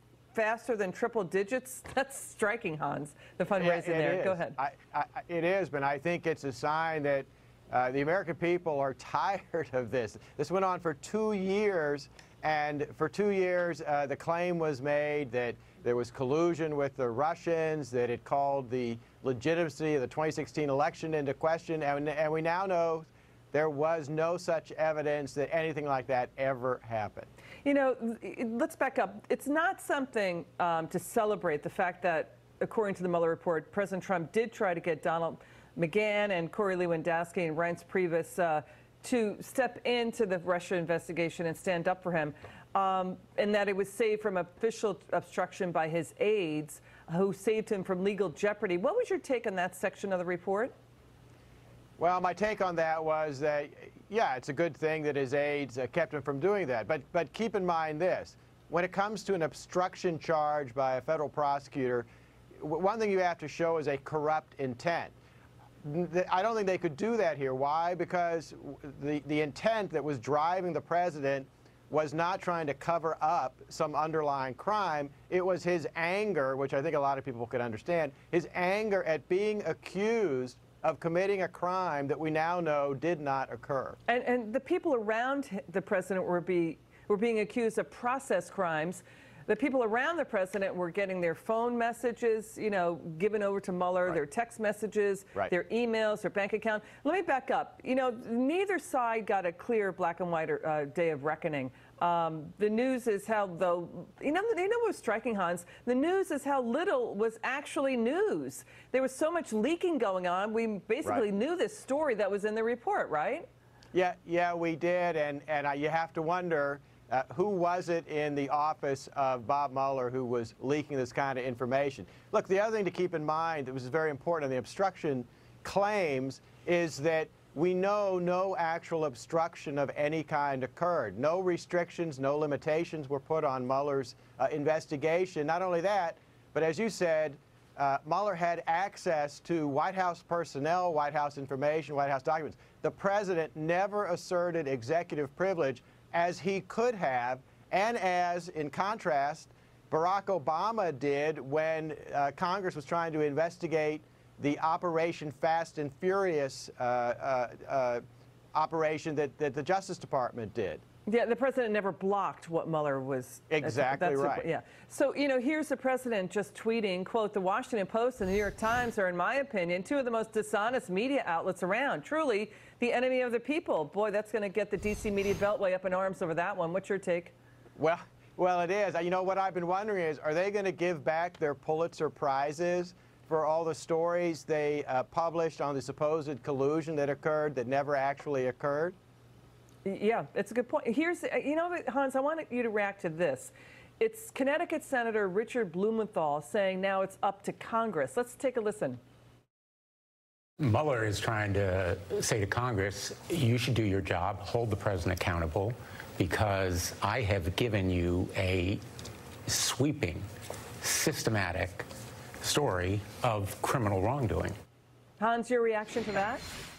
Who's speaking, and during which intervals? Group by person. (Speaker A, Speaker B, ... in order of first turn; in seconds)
Speaker A: 0.3-4.6, 27.6-50.7, 84.1-113.5, 161.1-177.3, 189.8-199.0, 215.2-216.4
Speaker B: 3.6-27.3, 52.0-62.1, 62.6-65.1, 65.8-84.0, 113.9-158.0, 158.5-160.8, 163.5-164.5, 177.8-188.9
Speaker C: 200.6-208.8, 209.5-210.2, 210.8-211.8, 212.4-214.6